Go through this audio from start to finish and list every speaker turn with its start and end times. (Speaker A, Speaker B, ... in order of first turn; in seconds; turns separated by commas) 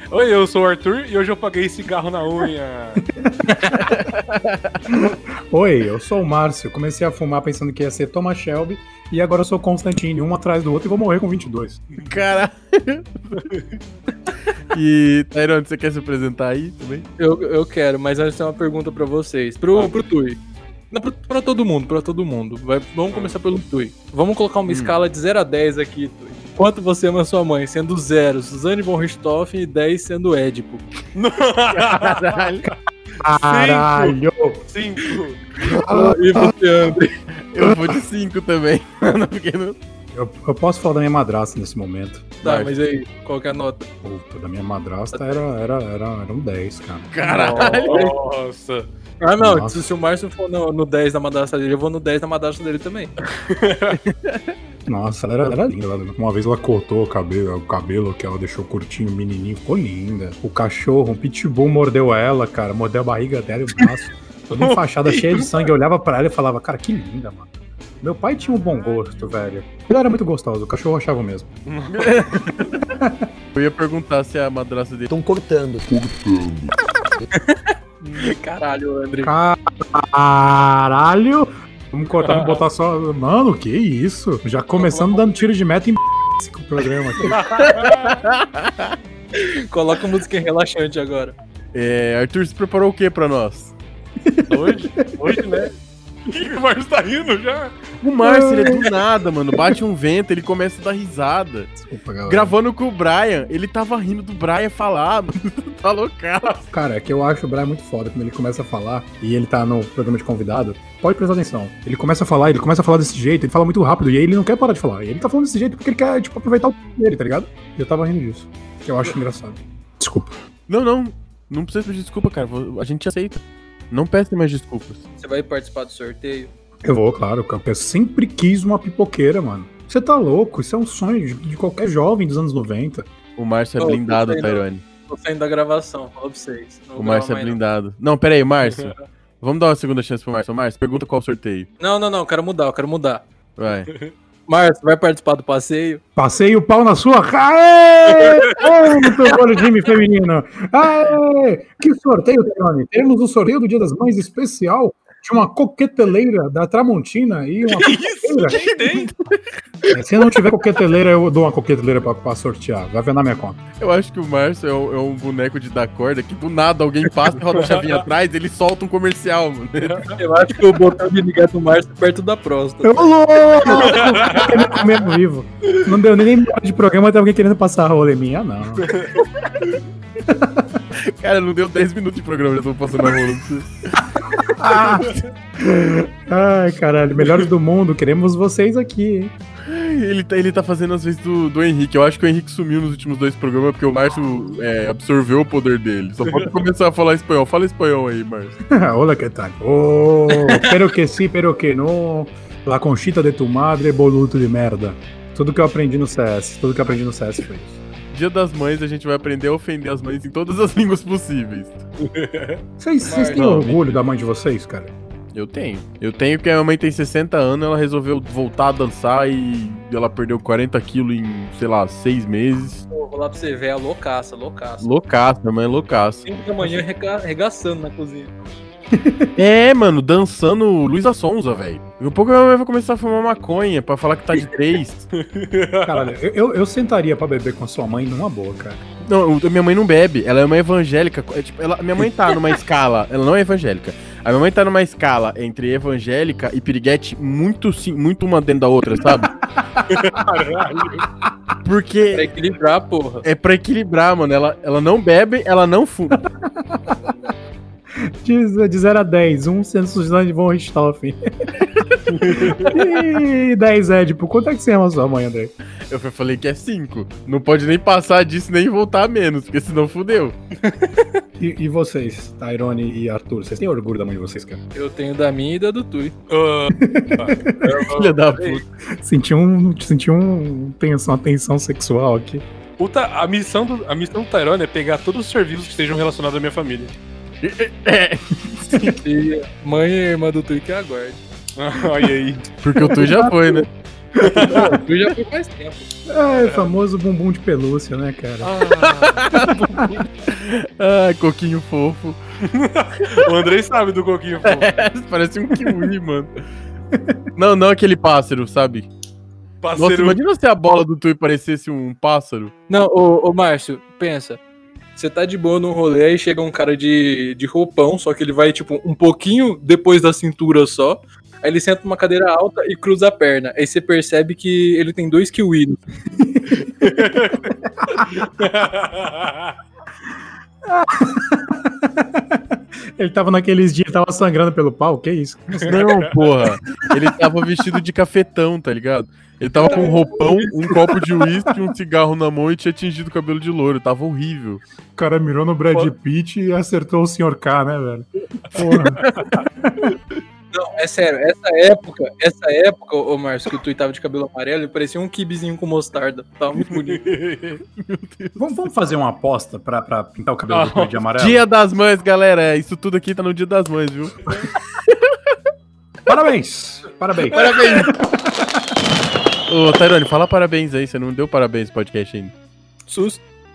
Speaker A: 0.1-3.0, Speaker B: 3.2-3.8, Speaker C: 3.8-4.8, Speaker B: 4.9-11.8, Speaker C: 12.0-13.1, Speaker C: 14.7-17.1, Speaker D: 17.2-20.4, Speaker D: 20.9-30.8, Speaker C: 24.7-24.9, Speaker A: 31.1-32.4, Speaker C: 31.7-32.7, Speaker B: 33.2-34.6, Speaker A: 33.4-34.1, Speaker A: 34.7-35.4, Speaker B: 35.7-36.5, Speaker D: 35.7-37.1, Speaker C: 37.5-39.8, Speaker B: 37.6-38.0, Speaker B: 40.1-42.3, Speaker D: 42.4-43.9, Speaker C: 42.4-42.7, Speaker B: 44.0-47.1, Speaker C: 47.1-48.1, Speaker A: 47.2-48.9, Speaker D: 49.2-53.1, Speaker B: 49.4-49.8, Speaker A: 53.4-54.0, Speaker C: 54.1-54.4, Speaker B: 54.9-67.5, Speaker A: 64.6-65.5, Speaker B: 68.0-71.5, Speaker A: 71.7-72.5, Speaker C: 71.9-72.9, Speaker B: 73.0-73.3, Speaker C: 73.5-75.1, Speaker E: 75.1-77.2, Speaker D: 77.3-79.3, Speaker A: 78.0-78.4, Speaker B: 79.2-87.4, Speaker A: 87.3-88.2, Speaker C: 87.6-89.0, Speaker D: 89.6-91.3, Speaker C: 91.7-93.7, Speaker B: 94.2-95.5, Speaker A: 94.5-95.7, Speaker A: 96.3-97.7, Speaker C: 98.0-101.7, Speaker B: 98.2-98.9, Speaker B: 101.8-102.5, Speaker C: 102.3-106.6, Speaker B: 106.7-120.3, Speaker C: 120.7-125.0, Speaker D: 125.2-126.5, Speaker B: 126.8-133.1, Speaker C: 133.4-134.8, Speaker D: 133.8-137.6, Speaker C: 137.0-141.7, Speaker D: 141.8-143.2, Speaker C: 143.6-143.9, Speaker D: 144.5-146.0, Speaker B: 146.2-158.6, Speaker A: 148.2-148.6, Speaker A: 157.7-159.1, Speaker C: 158.5-159.4, Speaker B: 159.9-163.6, Speaker C: 163.8-170.0, Speaker A: 167.5-167.9, Speaker A: 169.8-170.2, Speaker D: 170.2-173.1, Speaker B: 172.8-178.9, Speaker A: 173.8-174.7, Speaker A: 178.8-179.2, Speaker B: 180.3-180.8, Speaker C: 181.0-183.7, Speaker B: 184.5-189.3, Speaker C: 189.7-198.6, Speaker B: 198.7-207.8, Speaker C: 208.1-211.8, Speaker A: 212.0-212.6, Speaker B: 212.8-214.9, Speaker D: 213.0-213.5, Speaker C: 213.3-214.0, Speaker C: 215.3-222.8, Speaker D: 222.9-224.9, Speaker C: 224.8-226.2, Speaker D: 226.2-228.4, Speaker B: 228.9-229.3, Speaker C: 229.3-235.1, Speaker A: 235.2-236.1, Speaker B: 235.8-238.8, Speaker C: 239.0-249.3, Speaker B: 249.2-250.2, Speaker A: 249.9-251.0, Speaker C: 251.6-252.3, Speaker D: 252.1-253.2, Speaker C: 253.2-256.2, Speaker B: 256.2-257.0, Speaker B: 258.0-261.5, Speaker A: 262.1-262.7, Speaker B: 262.4-265.5, Speaker C: 265.9-270.4, Speaker B: 271.4-274.6, Speaker D: 274.7-276.1, Speaker A: 276.3-278.6, Speaker B: 276.7-277.7, Speaker C: 277.9-278.6, Speaker B: 279.0-282.4, Speaker A: 282.8-286.9, Speaker C: 287.4-288.9, Speaker D: 288.9-291.2, Speaker A: 291.6-292.5, Speaker C: 292.6-293.7, Speaker D: 292.9-293.6, Speaker A: 294.2-294.8, Speaker D: 294.2-295.9, Speaker B: 296.1-298.6, Speaker A: 296.3-296.7, Speaker A: 298.5-299.9, Speaker C: 298.8-299.6, Speaker C: 300.2-302.2, Speaker A: 302.4-304.7, Speaker C: 304.4-306.3, Speaker B: 305.6-305.8, Speaker B: 306.9-307.2, Speaker C: 307.3-308.9, Speaker A: 309.6-310.2, Speaker C: 309.8-312.5, Speaker D: 312.7-314.4, Speaker D: 314.9-325.8, Speaker B: 326.2-327.0, Speaker A: 326.8-327.5, Speaker A: 328.1-329.5, Speaker B: 330.7-335.8, Speaker A: 335.6-336.1, Speaker C: 335.6-344.6, Speaker D: 339.7-340.0, Speaker B: 344.9-349.1, Speaker A: 349.2-349.4, Speaker D: 350.5-357.0, Speaker C: 357.1-358.5, Speaker B: 358.4-361.4, Speaker A: 360.5-361.0, Speaker C: 361.2-365.2, Speaker B: 366.1-368.7, Speaker C: 367.3-367.9, Speaker C: 369.5-372.3, Speaker D: 372.9-373.2